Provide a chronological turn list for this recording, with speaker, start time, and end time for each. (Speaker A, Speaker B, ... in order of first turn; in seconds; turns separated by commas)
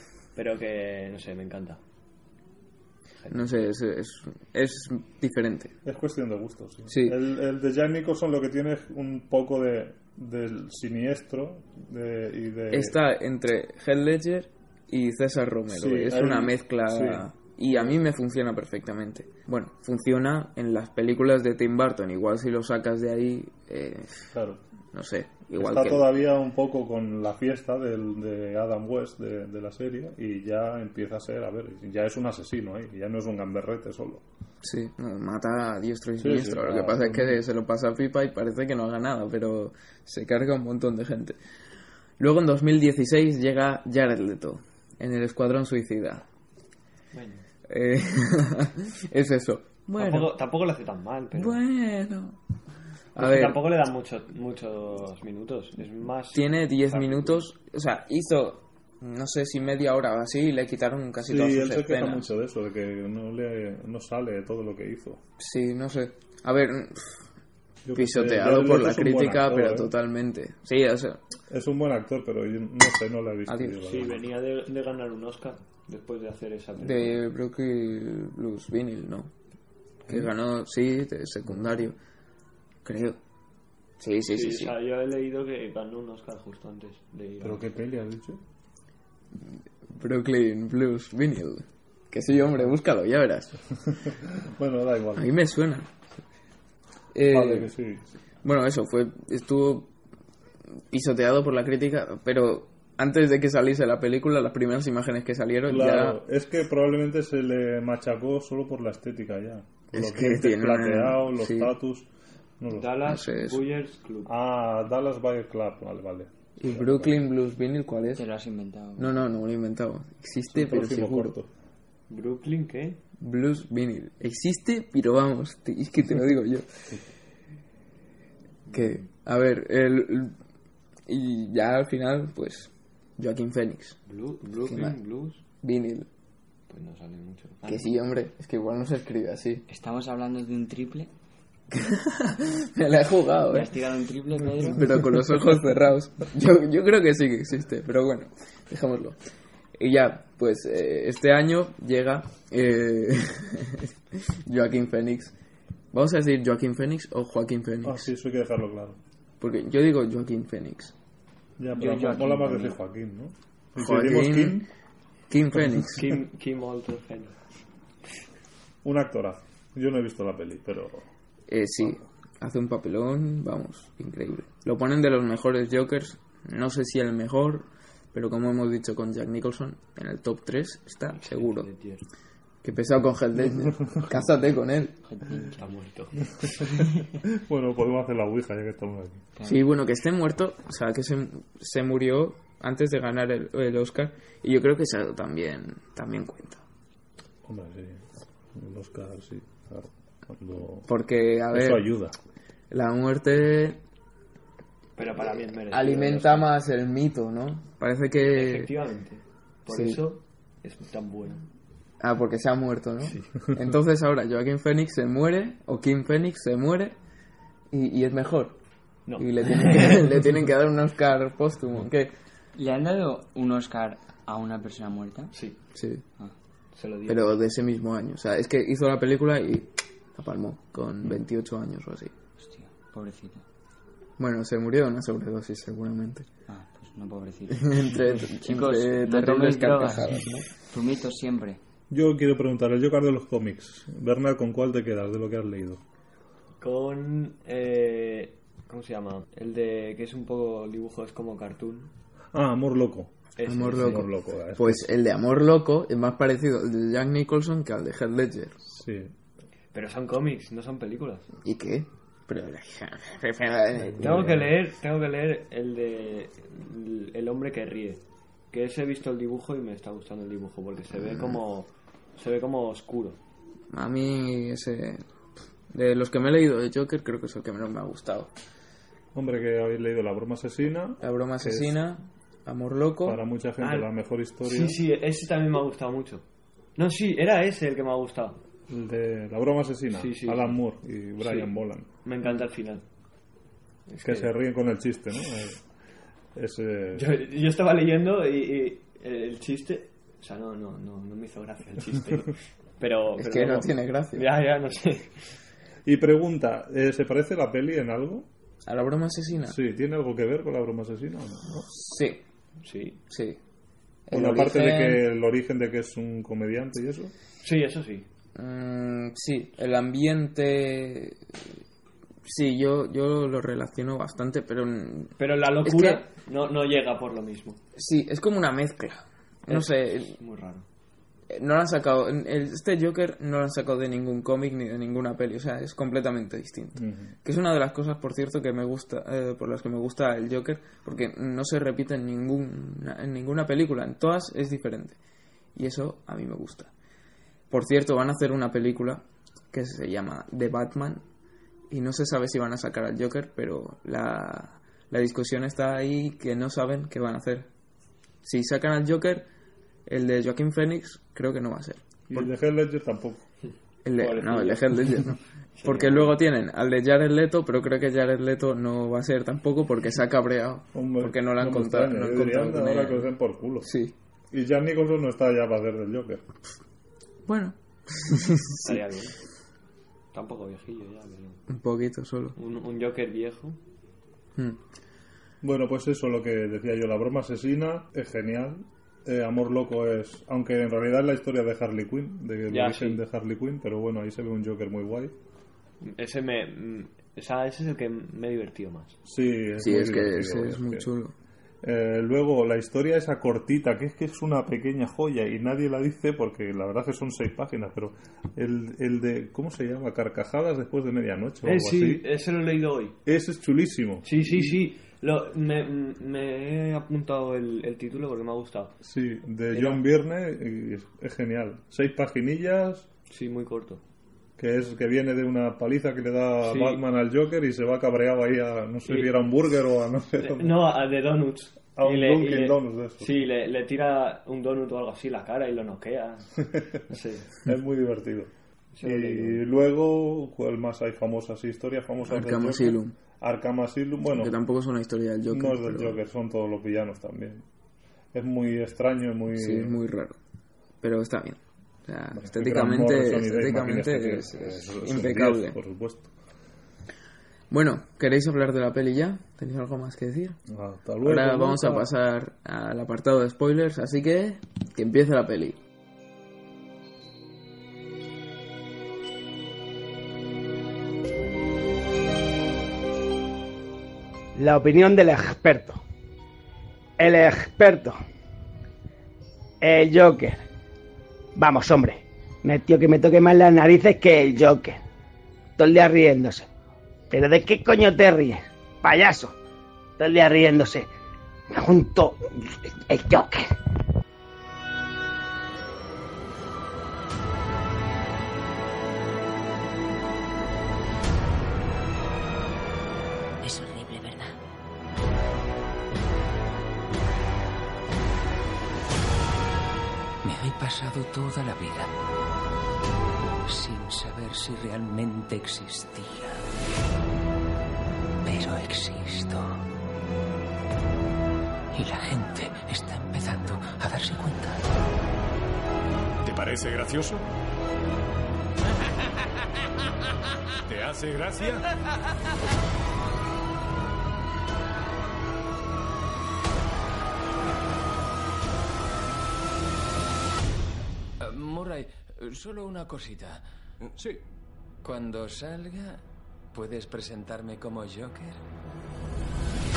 Speaker A: 0.3-1.8, Speaker A: 3.2-3.6, Speaker B: 3.3-5.7, Speaker C: 5.8-13.0, Speaker B: 6.9-7.2, Speaker B: 12.7-24.3, Speaker C: 15.7-17.2, Speaker C: 24.3-24.6, Speaker B: 24.9-26.1, Speaker C: 25.6-34.2, Speaker B: 34.6-41.4, Speaker C: 36.2-37.4, Speaker B: 42.2-46.2, Speaker A: 47.1-47.5, Speaker B: 47.7-50.3, Speaker A: 50.0-51.6, Speaker B: 51.4-52.4, Speaker B: 53.1-53.6, Speaker A: 53.2-57.4, Speaker B: 56.3-62.3, Speaker C: 61.2-65.2, Speaker B: 65.4-67.2, Speaker C: 67.8-69.9, Speaker B: 68.0-71.2, Speaker C: 71.5-74.3, Speaker B: 73.5-73.8, Speaker A: 73.8-77.2, Speaker B: 76.8-79.3, Speaker B: 80.1-82.0, Speaker B: 82.8-83.2, Speaker B: 84.0-84.7, Speaker A: 84.3-87.7, Speaker C: 87.4-88.4, Speaker B: 89.9-93.6, Speaker C: 94.1-95.3, Speaker B: 95.2-95.9, Speaker B: 97.1-97.7, Speaker C: 97.2-98.1, Speaker B: 98.4-99.9, Speaker B: 100.9-106.2, Speaker C: 105.7-112.1, Speaker B: 109.9-111.7, Speaker C: 112.6-113.0, Speaker A: 112.7-114.3, Speaker B: 113.0-113.6, Speaker C: 114.3-117.2, Speaker B: 116.6-118.2, Speaker D: 118.2-119.1, Speaker B: 119.0-121.3, Speaker C: 120.5-121.5, Speaker A: 122.1-123.0, Speaker B: 123.2-126.9, Speaker A: 128.7-129.0, Speaker B: 128.7-130.4, Speaker B: 131.1-134.0, Speaker A: 134.1-135.4, Speaker B: 134.6-135.0, Speaker B: 135.6-136.1, Speaker A: 136.7-137.9, Speaker B: 137.7-139.7, Speaker D: 139.7-141.1, Speaker B: 141.7-143.7, Speaker D: 143.5-145.0, Speaker B: 144.7-149.2, Speaker B: 149.8-155.3, Speaker B: 155.9-158.1, Speaker C: 157.8-159.0, Speaker B: 159.4-160.9, Speaker C: 161.6-164.7, Speaker D: 161.8-162.8, Speaker B: 163.8-164.7, Speaker B: 165.3-166.1, Speaker C: 165.5-166.1, Speaker A: 166.0-167.4, Speaker C: 168.8-171.1, Speaker B: 171.5-181.7, Speaker A: 181.2-182.1, Speaker B: 182.6-185.0, Speaker D: 185.1-185.6, Speaker A: 185.6-186.9, Speaker C: 187.2-189.2, Speaker D: 189.4-189.6, Speaker B: 189.5-196.6, Speaker C: 197.4-198.0, Speaker C: 198.5-200.9, Speaker B: 200.9-201.9, Speaker C: 201.5-202.2, Speaker B: 202.7-203.8, Speaker A: 205.0-206.5, Speaker B: 205.7-208.7, Speaker A: 208.3-211.4, Speaker B: 209.7-210.0, Speaker B: 212.0-217.0, Speaker A: 213.0-213.3, Speaker B: 217.7-218.6, Speaker A: 219.1-220.1, Speaker B: 219.2-222.1, Speaker D: 222.6-225.3, Speaker B: 225.8-226.0, Speaker A: 226.7-227.3, Speaker B: 227.1-232.1, Speaker D: 232.4-233.4, Speaker B: 234.2-236.3, Speaker D: 236.5-241.6, Speaker B: 237.5-240.5, Speaker C: 241.9-245.8, Speaker A: 246.6-251.9, Speaker C: 252.3-254.9, Speaker A: 253.4-254.1, Speaker B: 253.5-258.6, Speaker C: 258.6-259.1, Speaker A: 259.7-261.3, Speaker B: 261.4-264.3, Speaker C: 264.0-264.4, Speaker A: 264.0-273.2, Speaker B: 273.7-275.0, Speaker B: 275.7-278.3, Speaker C: 279.1-281.8, Speaker B: 281.0-283.2, Speaker C: 283.1-284.8, Speaker A: 283.6-283.9, Speaker A: 284.4-286.2, Speaker A: 286.8-288.4, Speaker C: 288.7-291.9, Speaker A: 289.9-290.6, Speaker A: 291.2-291.5, Speaker A: 292.1-292.8, Speaker A: 293.9-294.3, Speaker C: 294.0-295.6, Speaker C: 296.4-297.1, Speaker A: 296.9-305.3, Speaker B: 303.2-304.3, Speaker C: 305.9-308.3, Speaker B: 308.7-309.6, Speaker C: 309.4-311.7, Speaker B: 311.7-312.2, Speaker A: 312.6-313.0, Speaker B: 313.1-313.4, Speaker B: 314.1-315.0, Speaker C: 314.1-317.1, Speaker A: 317.4-318.1, Speaker B: 318.4-321.2, Speaker B: 322.2-326.0, Speaker A: 325.2-327.6, Speaker B: 327.8-330.1, Speaker A: 329.5-330.7, Speaker B: 331.3-345.0, Speaker C: 336.8-337.1, Speaker B: 345.6-346.7, Speaker B: 347.5-351.0, Speaker B: 351.7-357.5, Speaker B: 358.2-359.3, Speaker B: 359.9-362.3, Speaker C: 362.1-363.2, Speaker B: 363.9-373.9, Speaker A: 364.0-366.2, Speaker C: 370.7-373.7, Speaker C: 374.3-376.2, Speaker B: 377.3-378.8, Speaker A: 378.6-379.2, Speaker A: 380.1-381.4, Speaker B: 381.5-382.4, Speaker A: 382.4-383.6, Speaker C: 385.4-395.2, Speaker A: 392.5-393.0, Speaker A: 395.8-399.0, Speaker C: 399.1-400.9, Speaker B: 399.6-401.1, Speaker C: 401.6-412.0, Speaker A: 411.4-413.0, Speaker C: 413.1-414.6, Speaker A: 414.1-418.8, Speaker C: 418.8-422.9, Speaker A: 419.5-419.8, Speaker A: 423.1-423.8, Speaker C: 424.4-430.6, Speaker A: 426.4-426.8, Speaker A: 428.9-429.1, Speaker A: 430.2-437.4, Speaker C: 431.8-433.2, Speaker C: 437.4-438.3, Speaker A: 438.7-439.4, Speaker C: 438.8-444.4, Speaker B: 442.1-442.9, Speaker B: 444.1-446.0, Speaker C: 445.3-447.5, Speaker C: 448.1-449.8, Speaker B: 449.3-450.2, Speaker B: 450.8-455.6, Speaker C: 452.1-456.1, Speaker B: 457.5-460.4, Speaker C: 460.5-461.9, Speaker B: 461.0-465.6, Speaker E: 474.4-475.8, Speaker E: 477.0-478.0, Speaker E: 479.6-480.4, Speaker E: 481.4-484.8, Speaker E: 485.6-486.5, Speaker E: 487.1-489.4, Speaker E: 490.0-490.9, Speaker E: 491.5-493.6, Speaker F: 503.4-504.4, Speaker F: 510.2-511.9, Speaker F: 513.4-516.4, Speaker F: 518.2-519.6, Speaker F: 521.7-524.6, Speaker G: 526.2-527.3, Speaker G: 530.7-531.6, Speaker F: 541.2-543.4, Speaker F: 544.8-546.0, Speaker F: 546.5-548.4